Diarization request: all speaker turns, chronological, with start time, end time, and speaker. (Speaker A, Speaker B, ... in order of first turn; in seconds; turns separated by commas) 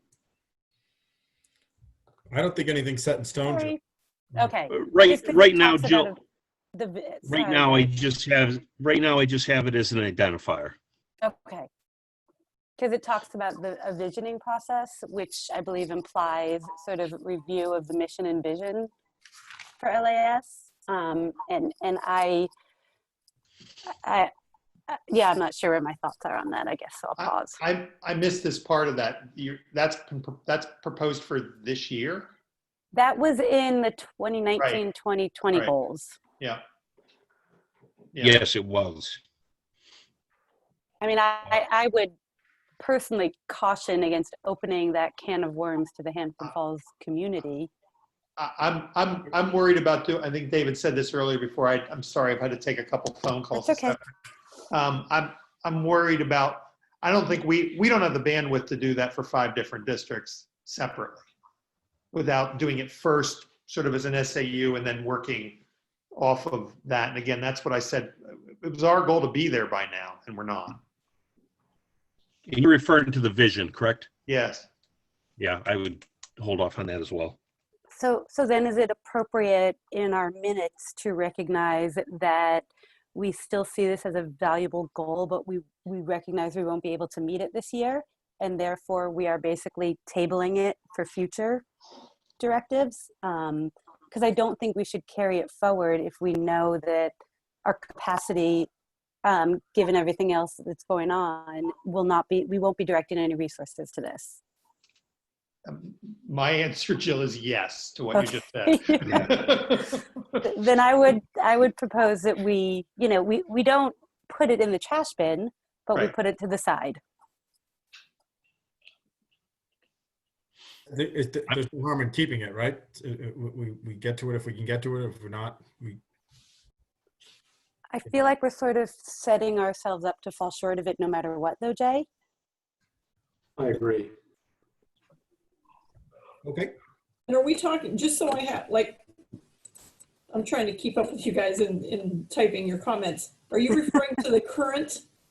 Speaker A: 2.3-3.7, Speaker B: 3.4-3.8, Speaker B: 4.3-6.2, Speaker C: 4.7-6.1, Speaker B: 6.7-7.9, Speaker C: 7.2-10.8, Speaker B: 11.2-11.7, Speaker B: 12.8-18.9, Speaker B: 19.8-22.5, Speaker B: 24.0-24.3, Speaker B: 24.9-27.6, Speaker D: 27.2-32.3, Speaker B: 32.9-36.1, Speaker D: 38.1-38.4, Speaker C: 38.2-39.2, Speaker B: 41.0-42.1, Speaker B: 42.8-47.7, Speaker D: 48.4-54.0, Speaker B: 53.5-54.0, Speaker D: 54.7-61.2, Speaker D: 62.1-65.6, Speaker D: 66.1-70.8, Speaker C: 72.5-74.1, Speaker D: 74.3-74.7, Speaker C: 75.4-77.4, Speaker B: 77.9-91.6, Speaker B: 92.4-97.1, Speaker B: 97.6-98.7, Speaker B: 99.2-104.4, Speaker D: 105.7-110.0, Speaker B: 108.1-109.4, Speaker B: 110.4-117.0, Speaker A: 120.9-126.0, Speaker B: 127.9-132.1, Speaker A: 133.6-134.1, Speaker A: 136.4-136.7, Speaker E: 137.3-139.0, Speaker E: 140.3-145.0